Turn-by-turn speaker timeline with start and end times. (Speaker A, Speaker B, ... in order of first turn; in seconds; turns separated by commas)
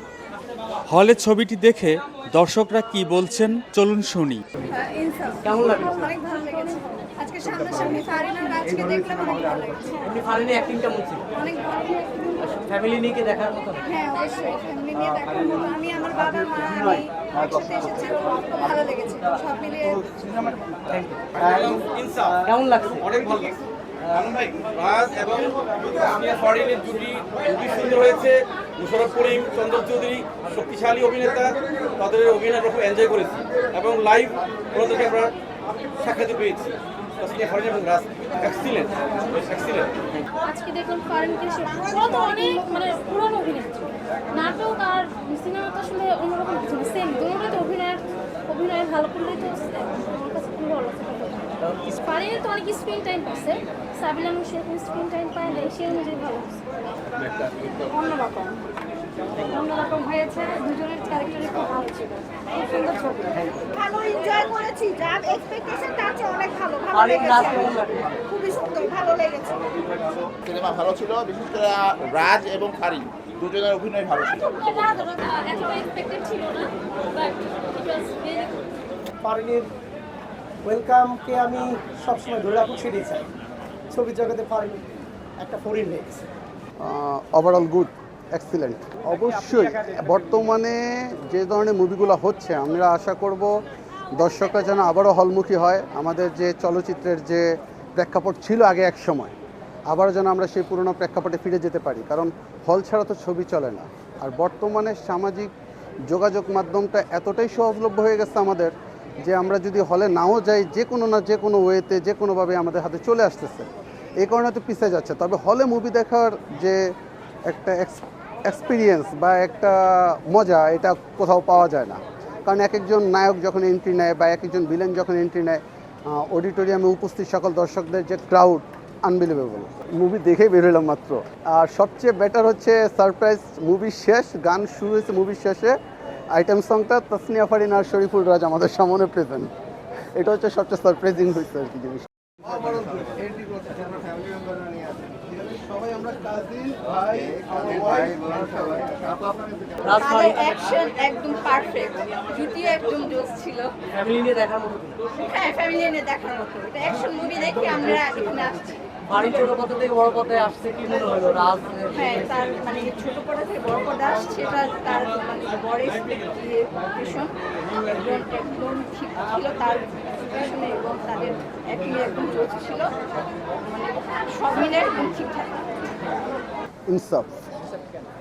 Speaker A: 0.9-4.4, Speaker B: 4.7-10.1, Speaker C: 5.4-6.2, Speaker C: 10.0-11.2, Speaker B: 11.4-12.4, Speaker C: 12.4-13.9, Speaker B: 14.0-16.9, Speaker C: 16.2-19.4, Speaker B: 17.4-19.7, Speaker C: 20.9-21.8, Speaker D: 21.4-22.4, Speaker C: 22.4-23.1, Speaker D: 23.0-23.6, Speaker D: 24.1-35.3, Speaker D: 36.0-36.7, Speaker D: 37.2-39.9, Speaker E: 40.4-56.6, Speaker E: 59.5-62.0, Speaker C: 63.3-63.6, Speaker B: 63.7-69.7, Speaker C: 66.9-68.1, Speaker F: 70.4-74.7, Speaker E: 74.5-78.6, Speaker G: 79.2-79.7, Speaker G: 80.6-83.3, Speaker G: 83.9-84.8, Speaker G: 85.4-86.3, Speaker H: 86.8-93.5, Speaker H: 94.2-99.3, Speaker H: 99.9-105.5, Speaker H: 106.1-113.7, Speaker H: 114.2-117.0, Speaker H: 117.5-135.7, Speaker H: 136.3-139.5, Speaker H: 140.2-149.4, Speaker C: 149.8-150.4, Speaker B: 149.9-153.7, Speaker C: 153.9-155.0, Speaker B: 155.1-159.0, Speaker C: 159.1-162.1, Speaker B: 161.9-172.9, Speaker B: 173.6-175.9, Speaker H: 176.9-177.3